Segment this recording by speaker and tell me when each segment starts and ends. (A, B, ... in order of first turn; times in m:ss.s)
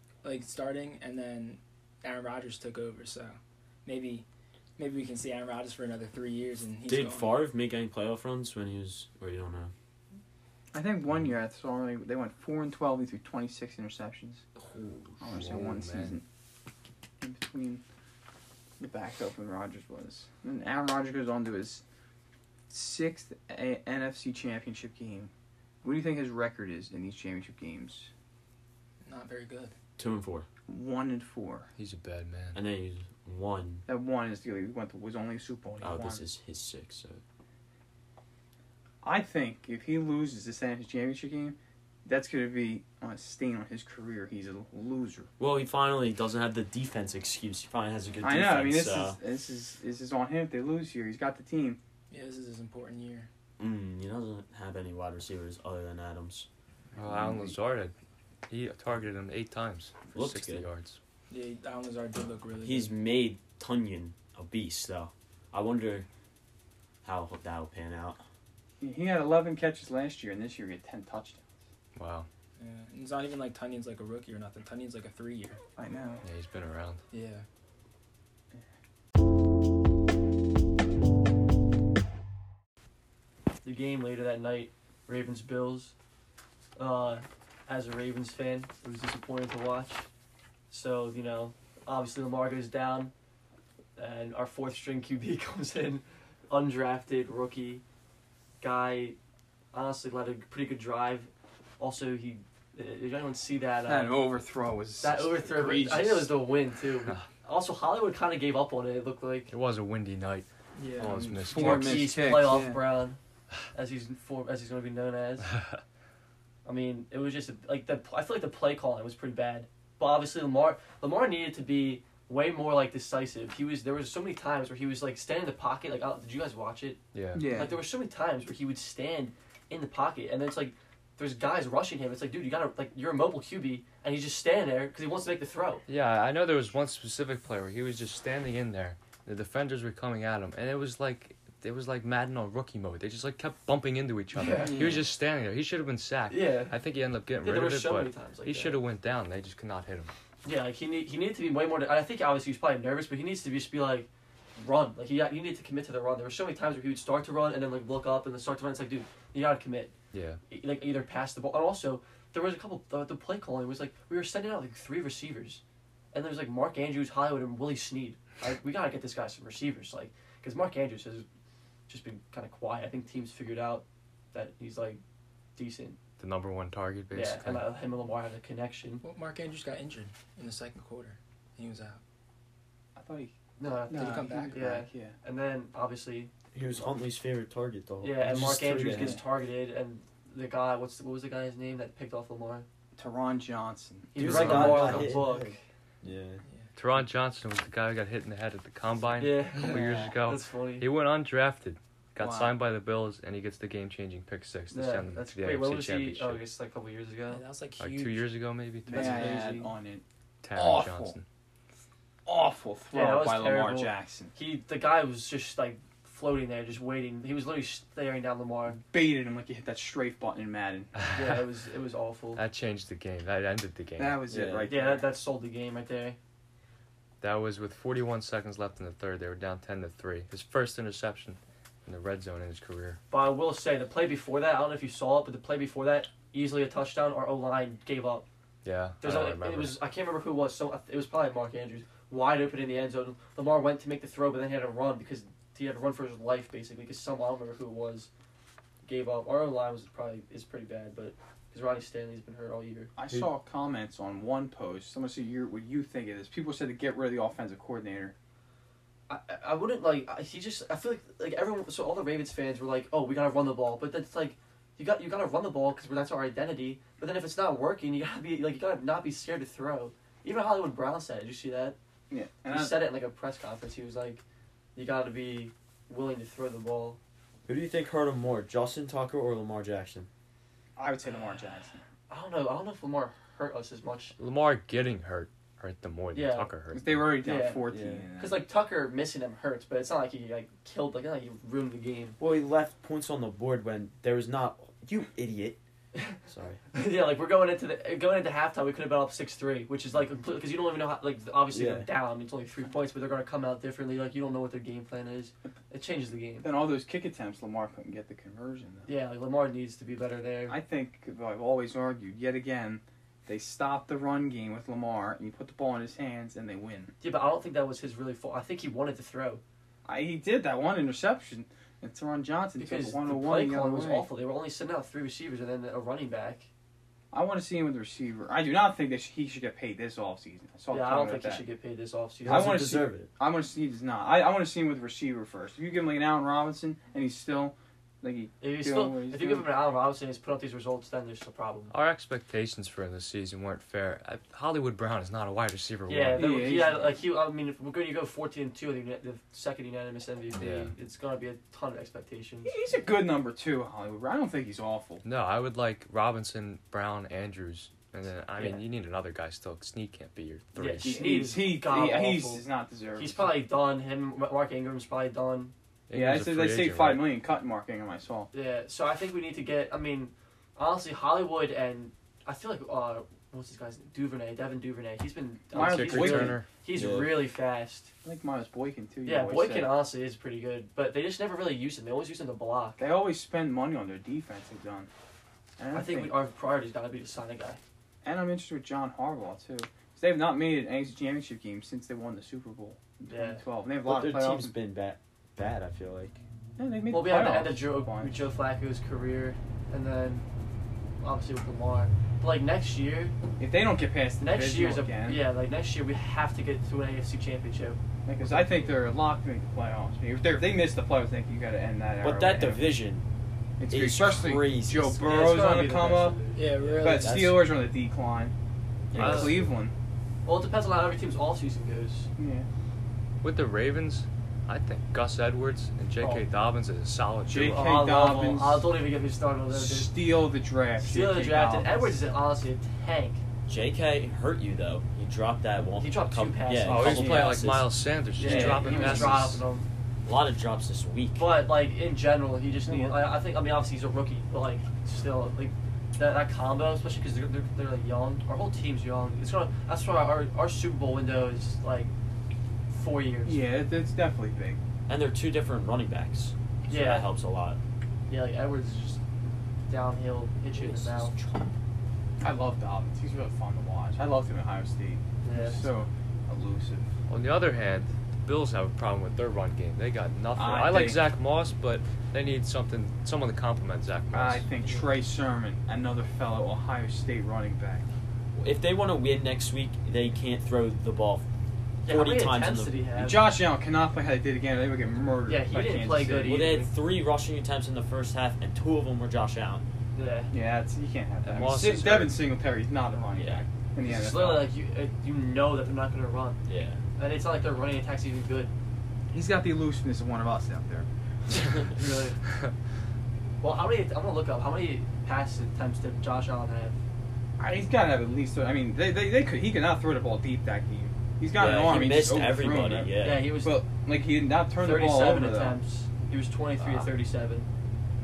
0:00.2-0:04.2 A
0:04.8-0:07.4 A
0:06.9-0:09.7 B
0:10.7-0:14.4 C
0:14.6-0:15.2 B
0:15.2-0:16.2 C
0:15.3-0:16.2 D
0:17.2-0:17.8 C
0:18.8-0:21.8 C
0:22.7-0:25.3 C
0:25.8-0:28.1 C
0:29.0-0:29.7 A
0:30.0-0:30.5 B
0:30.7-0:31.7 C
0:31.8-0:32.6 D
0:32.5-0:33.8 B
0:33.9-0:36.2 C
0:35.8-0:37.2 B
0:39.0-0:45.3 C
0:45.4-0:49.2 B
0:48.2-0:51.8 C
0:52.1-0:53.3 A
0:53.6-0:56.5 B
0:56.9-0:57.9 D
0:57.0-0:57.6 C
0:58.5-1:01.0 D
1:00.1-1:00.7 B
1:01.3-1:02.9 A
1:02.6-1:06.1 B
1:07.0-1:08.2 B
1:08.8-1:11.5 C
1:11.9-1:12.3 D
1:12.6-1:15.6 A
1:15.8-1:16.2 C
1:16.2-1:17.0 D
1:17.1-1:17.4 A
1:23.6-1:25.9 E
1:26.8-1:30.0 E
1:30.7-1:33.1 E
1:34.0-1:37.8 E
1:38.6-1:39.2 E
1:39.7-1:44.2 E
1:43.8-1:46.3 C
1:45.0-1:49.5 E
1:49.5-1:50.5 D
1:50.8-1:51.3 A
1:51.0-1:52.2 D
1:51.0-1:52.8 C
1:51.5-1:53.2 E
1:53.7-1:55.5 E
1:55.5-1:55.8 D
1:56.6-2:15.8 E
2:07.1-2:07.5 D
2:07.3-2:07.8 C
2:15.9-2:30.1 D
2:24.3-2:24.9 E
2:26.3-2:26.7 E
2:27.4-2:28.8 E
2:30.4-2:39.9 E
2:40.1-2:40.4 D
2:40.5-2:45.6 E
2:46.1-2:51.2 E
2:51.9-2:55.0 E
2:55.6-2:56.0 E
2:56.2-2:57.6 D
2:57.1-2:59.0 E
2:59.0-3:02.0 A
3:02.9-3:03.4 C
3:03.6-3:06.3 E
3:03.9-3:05.2 C
3:03.9-3:04.6 A
3:06.5-3:09.2 B
3:08.0-3:12.6 E
3:08.3-3:09.2 C
3:13.0-3:15.5 C
3:14.1-3:15.6 E
3:14.2-3:15.5 B
3:16.0-3:16.4 B
3:16.7-3:26.4 D
3:19.2-3:20.9 E
3:22.2-3:22.5 C
3:24.7-3:27.4 E
3:27.3-3:28.3 A
3:27.8-3:29.4 D
3:28.8-3:30.0 C
3:28.9-3:29.7 E
3:30.4-3:31.2 D
3:30.5-3:31.2 C
3:32.2-3:34.3 C
3:32.9-3:38.8 E
3:38.9-3:40.9 C
3:40.9-3:41.4 D
3:41.1-3:42.4 E
3:42.4-3:44.2 D
3:44.0-3:45.1 C
3:44.3-3:44.7 B
3:44.7-3:46.2 E
3:47.2-3:53.0 D
3:53.1-3:58.2 E
3:58.6-3:59.8 D
3:59.0-4:08.1 E
4:08.8-4:12.9 E
4:13.0-4:18.1 C
4:19.1-4:31.8 E
4:32.1-4:32.8 C
4:32.4-4:34.2 E
4:34.7-4:37.0 E
4:37.5-4:40.1 B
4:40.8-4:41.8 C
4:42.1-4:44.1 E
4:44.2-4:47.1 D
4:46.1-4:46.5 E
4:46.7-4:48.4 C
4:47.2-4:47.6 E
4:47.7-4:48.0 B
4:48.2-4:52.2 E
4:52.2-4:55.6 B
4:56.3-4:56.6 B
4:56.7-5:06.5 E
5:01.5-5:01.9 B
5:06.4-5:08.9 C
5:08.8-5:10.6 E
5:10.5-5:16.9 C
5:17.0-5:19.4 E
5:19.8-5:24.1 C
5:22.6-5:26.5 E
5:27.1-5:31.4 C
5:30.7-5:32.8 E
5:32.2-5:33.1 B
5:32.2-5:39.5 C
5:38.4-5:41.7 E
5:41.7-5:46.4 D
5:45.9-5:52.5 E
5:46.2-5:47.0 C
5:50.4-5:50.7 D
5:52.4-5:55.0 C
5:55.0-6:01.1 D
6:00.6-6:05.5 E
6:00.8-6:03.4 C
6:05.9-6:07.0 D
6:05.9-6:08.3 C
6:08.3-6:17.9 E
6:15.5-6:16.4 C
6:15.5-6:16.5 D
6:16.7-6:17.2 B
6:18.0-6:19.7 C
6:19.0-6:22.8 E
6:22.8-6:24.9 C
6:25.6-6:26.1 C
6:25.7-6:27.6 E
6:28.0-6:34.5 C
6:33.1-6:33.4 E
6:33.8-6:36.2 B
6:36.6-6:38.2 C
6:36.9-6:40.2 E
6:41.0-6:43.1 E
6:43.4-6:45.2 C
6:44.2-6:48.8 E
6:48.0-6:52.7 C
6:52.0-6:53.0 B
6:53.6-6:56.2 C
6:53.7-6:55.0 B
6:54.9-6:56.8 E
6:56.4-6:57.3 A
6:56.6-6:57.4 B
6:56.8-6:58.3 C
6:58.9-6:59.4 D
6:58.9-6:59.7 C
6:58.9-6:59.4 E
6:58.9-6:59.5 B
7:00.2-7:02.1 E
7:02.2-7:02.5 C
7:03.2-7:07.5 D
7:06.0-7:06.2 E
7:07.3-7:08.7 C
7:07.4-7:09.9 E
7:09.5-7:12.0 C
7:10.8-7:13.2 E
7:13.5-7:19.1 B
7:15.8-7:17.4 E
7:16.6-7:19.4 D
7:18.2-7:19.6 E
7:18.3-7:19.0 C
7:20.0-7:21.2 B
7:21.2-7:31.9 E
7:22.7-7:23.1 C
7:32.7-7:33.4 E
7:33.2-7:34.6 C
7:34.9-7:37.6 B
7:36.7-7:37.1 E
7:38.1-7:39.0 E
7:39.7-7:41.2 E
7:40.5-7:41.4 B
7:42.2-7:46.9 C
7:45.2-7:45.7 E
7:47.1-7:54.5 D
7:50.4-7:51.0 C
7:54.1-7:57.8 C
7:58.3-8:01.2 B
8:01.8-8:03.2 E
8:01.8-8:02.8 B
8:03.0-8:06.4 C
8:05.2-8:06.7 E
8:06.2-8:09.6 B
8:09.9-8:10.3 E
8:10.3-8:14.5 C
8:11.2-8:12.2 D
8:13.8-8:16.4 E
8:16.5-8:16.8 B
8:17.0-8:18.5 E
8:19.1-8:20.9 C
8:21.6-8:22.2 E
8:23.4-8:26.8 E
8:27.4-8:35.6 C
8:31.4-8:33.3 B
8:33.0-8:33.6 E
8:34.6-8:37.5 E
8:36.6-8:36.9 D